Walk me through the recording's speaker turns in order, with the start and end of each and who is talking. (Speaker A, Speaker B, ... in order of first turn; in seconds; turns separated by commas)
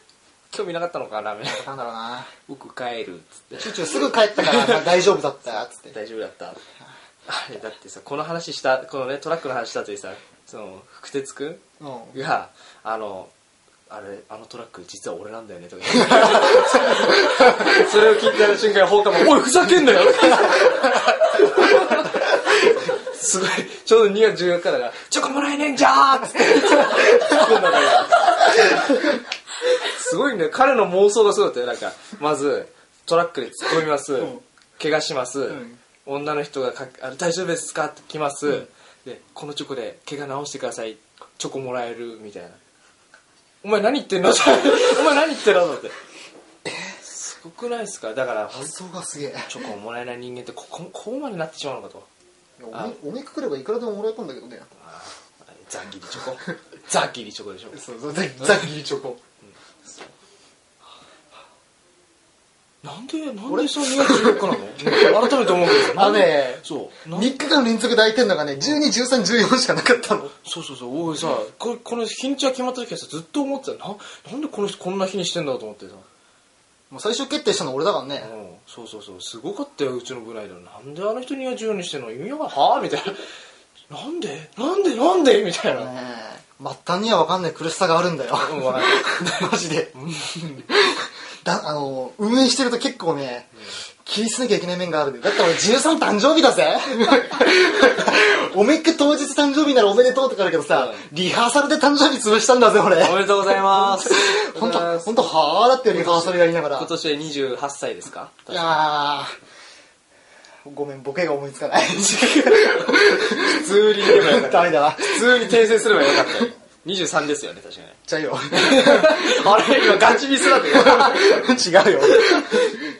Speaker A: 0.5-1.7, Speaker B: 1.5-2.3, Speaker A: 2.5-6.6, Speaker B: 3.5-5.9, Speaker A: 7.2-13.3, Speaker B: 11.8-12.2, Speaker A: 13.9-29.2, Speaker B: 26.9-27.4, Speaker A: 29.7-42.6, Speaker B: 35.5-35.8, Speaker A: 43.6-45.9, Speaker B: 46.6-47.0, Speaker A: 47.0-48.7, Speaker B: 48.5-49.5, Speaker A: 49.4-52.1, Speaker B: 52.6-54.7, Speaker A: 52.7-53.0, Speaker A: 54.8-57.8, Speaker B: 57.7-59.2, Speaker A: 58.4-58.7, Speaker A: 59.4-60.1, Speaker A: 62.8-67.4, Speaker B: 63.5-70.3, Speaker A: 70.4-76.0, Speaker B: 76.9-78.3, Speaker A: 78.2-83.2, Speaker A: 83.9-85.9, Speaker B: 85.7-106.9, Speaker A: 88.4-90.7, Speaker A: 100.7-101.0, Speaker A: 103.0-105.3, Speaker A: 105.9-108.8, Speaker B: 108.5-109.3, Speaker B: 110.6-116.5, Speaker A: 112.2-118.0, Speaker B: 118.0-122.8, Speaker A: 118.5-122.8